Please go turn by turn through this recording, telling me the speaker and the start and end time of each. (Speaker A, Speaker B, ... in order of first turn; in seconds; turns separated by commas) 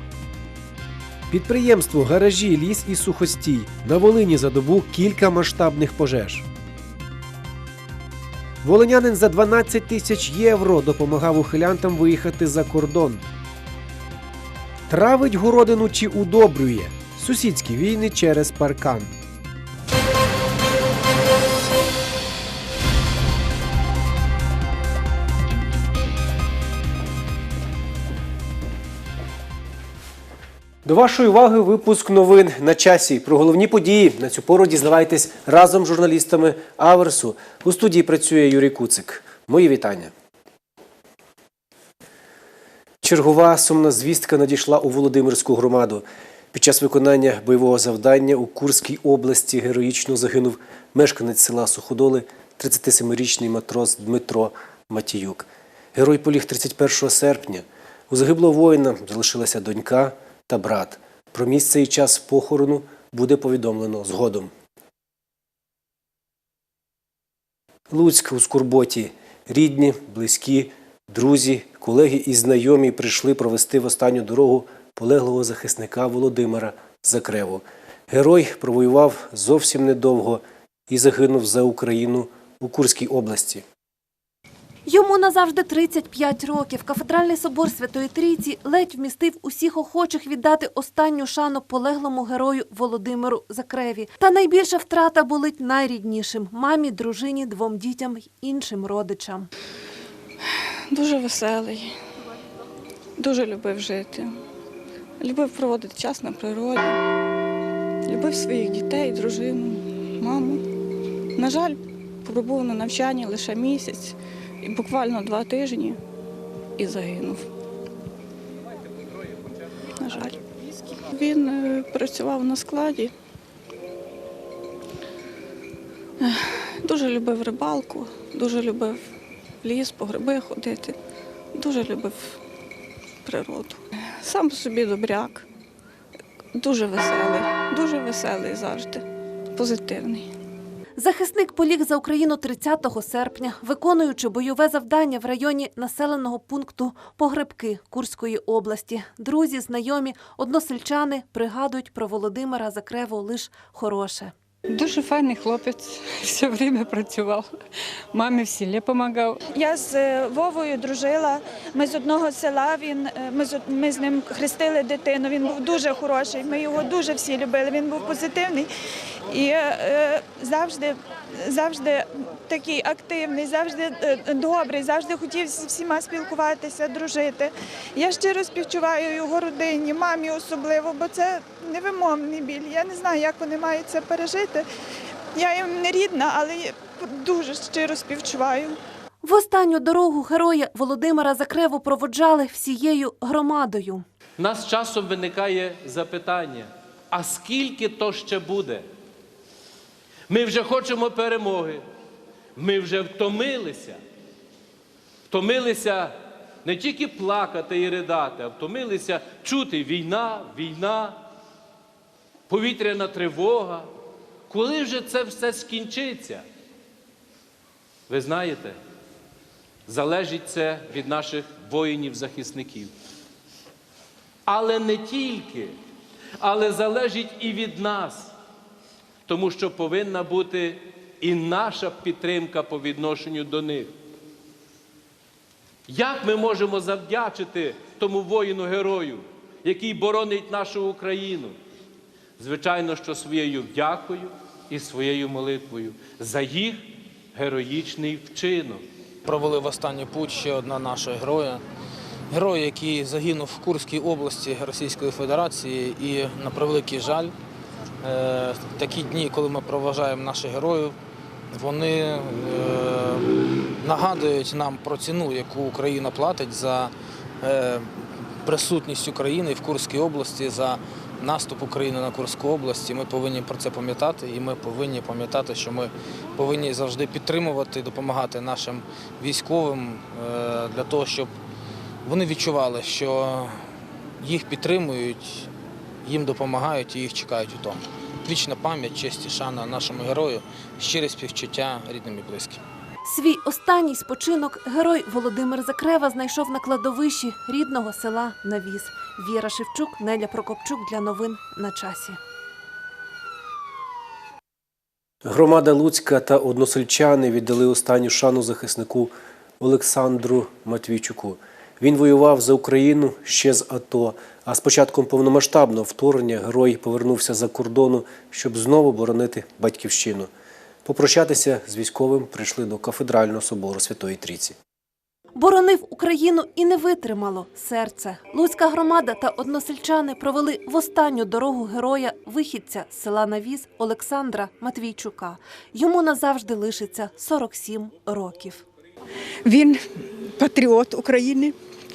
Speaker A: 1.3-6.4, Speaker A: 8.6-13.2, Speaker A: 14.9-19.1, Speaker A: 30.8-40.1, Speaker A: 43.0-64.5, Speaker A: 67.9-83.6, Speaker B: 84.8-99.5, Speaker C: 100.9-101.9, Speaker C: 103.2-104.4, Speaker C: 105.2-107.0, Speaker C: 108.0-110.6, Speaker C: 111.3-116.0, Speaker C: 116.8-117.5, Speaker C: 120.0-123.1, Speaker C: 126.2-129.0, Speaker C: 129.6-130.9, Speaker C: 131.5-132.4, Speaker C: 133.2-135.4, Speaker C: 136.5-140.3, Speaker B: 141.0-154.3, Speaker D: 154.7-157.5, Speaker D: 158.1-159.4, Speaker E: 159.5-168.7, Speaker E: 169.3-184.7, Speaker E: 185.3-188.8, Speaker B: 189.2-194.0, Speaker F: 194.4-198.8, Speaker F: 200.3-201.8, Speaker F: 202.6-204.0, Speaker F: 205.3-211.2, Speaker F: 212.5-213.9, Speaker F: 214.5-216.4, Speaker F: 218.1-218.8, Speaker F: 219.9-222.9, Speaker F: 224.5-225.7, Speaker F: 226.4-228.3, Speaker F: 229.2-233.9, Speaker F: 235.9-241.5, Speaker F: 242.4-248.8, Speaker G: 249.2-251.6, Speaker G: 252.3-257.3, Speaker G: 258.0-260.9, Speaker G: 261.5-263.3, Speaker G: 263.8-281.3, Speaker G: 282.0-283.6, Speaker G: 284.2-285.5, Speaker G: 286.0-292.6, Speaker B: 293.0-302.2, Speaker A: 305.2-320.3, Speaker A: 320.8-324.6, Speaker B: 325.3-338.6, Speaker H: 339.4-341.5